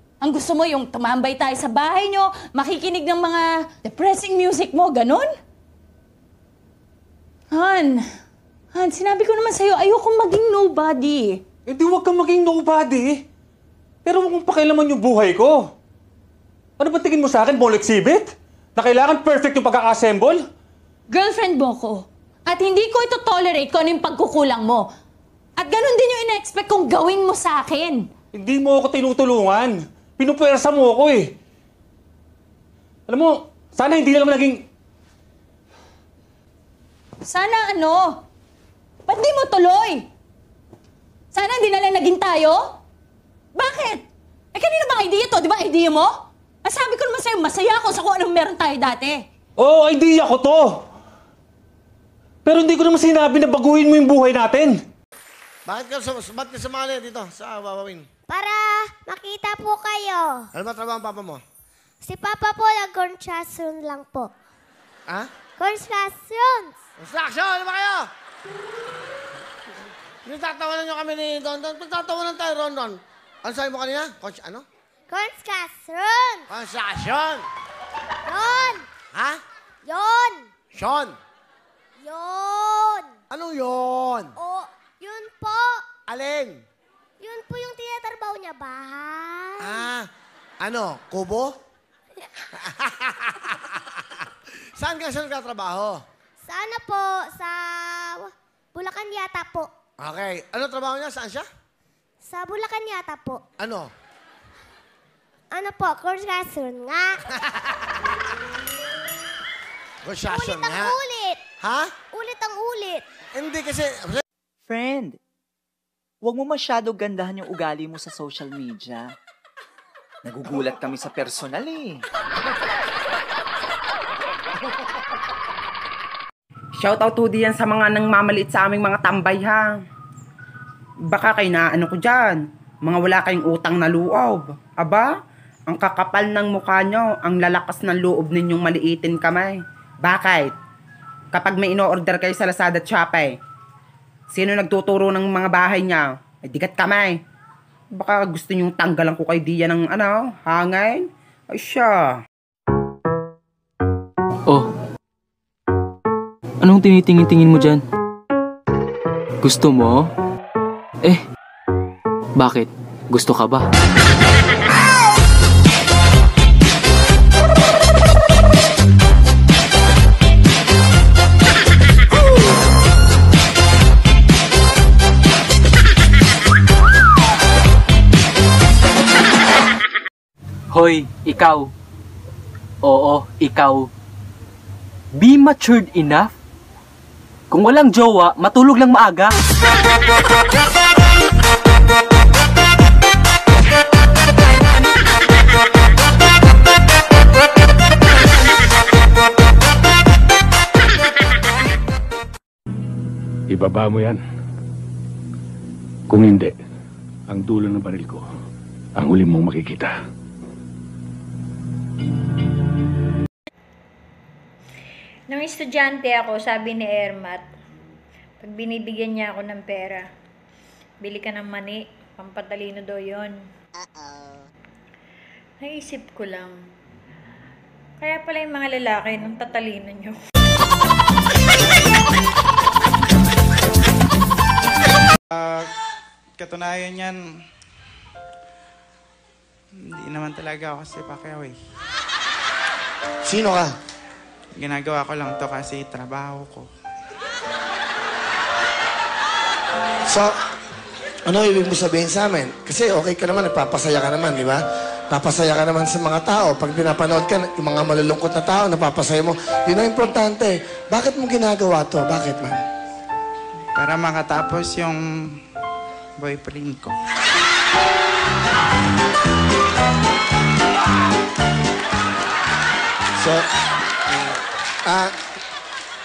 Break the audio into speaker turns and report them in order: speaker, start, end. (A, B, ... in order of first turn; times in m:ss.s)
0:00.2-0:05.3 A
0:07.5-0:08.0 A
0:08.7-0:11.4 A
0:11.6-0:13.2 B
0:14.0-0:15.7 B
0:16.8-0:20.5 B
0:21.1-0:24.9 A
0:25.6-0:28.1 A
0:28.3-0:31.4 B
0:33.1-0:34.7 B
0:37.2-0:38.2 A
0:39.0-0:40.1 A
0:41.3-0:42.8 A
0:43.5-0:49.2 A
0:49.6-0:50.8 B
0:52.4-0:54.8 B
0:55.7-0:58.0 C
0:58.3-1:00.5 D
1:00.6-1:01.4 C
1:02.0-1:04.3 D
1:05.6-1:06.7 D
1:07.0-1:08.0 C
1:10.2-1:14.6 C
1:15.1-1:16.5 D
1:16.5-1:17.4 C
1:18.2-1:18.8 D
1:19.8-1:20.5 D
1:20.8-1:21.1 C
1:22.0-1:23.1 D
1:23.3-1:24.3 C
1:24.4-1:25.8 D
1:26.1-1:26.6 C
1:27.2-1:29.9 D
1:29.6-1:30.0 C
1:30.6-1:31.6 C
1:33.0-1:33.3 C
1:34.8-1:36.0 C
1:36.4-1:39.7 D
1:40.0-1:41.4 C
1:42.2-1:43.4 D
1:43.6-1:43.9 C
1:45.5-1:47.2 D
1:50.0-1:51.0 C
1:50.2-1:51.4 D
1:51.6-1:51.9 C
1:52.1-1:53.0 D
1:53.3-1:54.2 C
1:54.7-1:55.2 E
1:56.2-1:59.1 E
2:00.2-2:02.0 E
2:06.8-2:09.7 F
2:11.1-2:15.1 F
2:15.7-2:20.5 F
2:21.3-2:23.3 F
2:24.3-2:27.2 F
2:27.9-2:32.1 F
2:36.6-2:37.8 G
2:39.4-2:40.1 G
2:42.4-2:43.6 G
3:00.7-3:01.7 G
3:02.8-3:03.9 G
3:05.1-3:06.3 G
3:07.5-3:09.3 G
3:23.5-3:24.2 H
3:26.1-3:26.5 H
3:27.3-3:28.2 H
3:29.0-3:29.9 H
3:35.3-3:37.5 I
3:38.4-3:40.1 I
3:41.0-3:43.4 I
3:45.6-3:46.6 I
3:48.0-3:50.2 I
3:55.3-3:55.7 J
3:56.4-3:57.2 J
3:59.8-4:01.6 J
4:03.2-4:03.7 C
4:04.6-4:06.7 J
4:10.1-4:10.3 C
4:11.3-4:22.6 C
4:23.8-4:25.0 J
4:26.2-4:27.0 J
4:34.8-4:35.1 C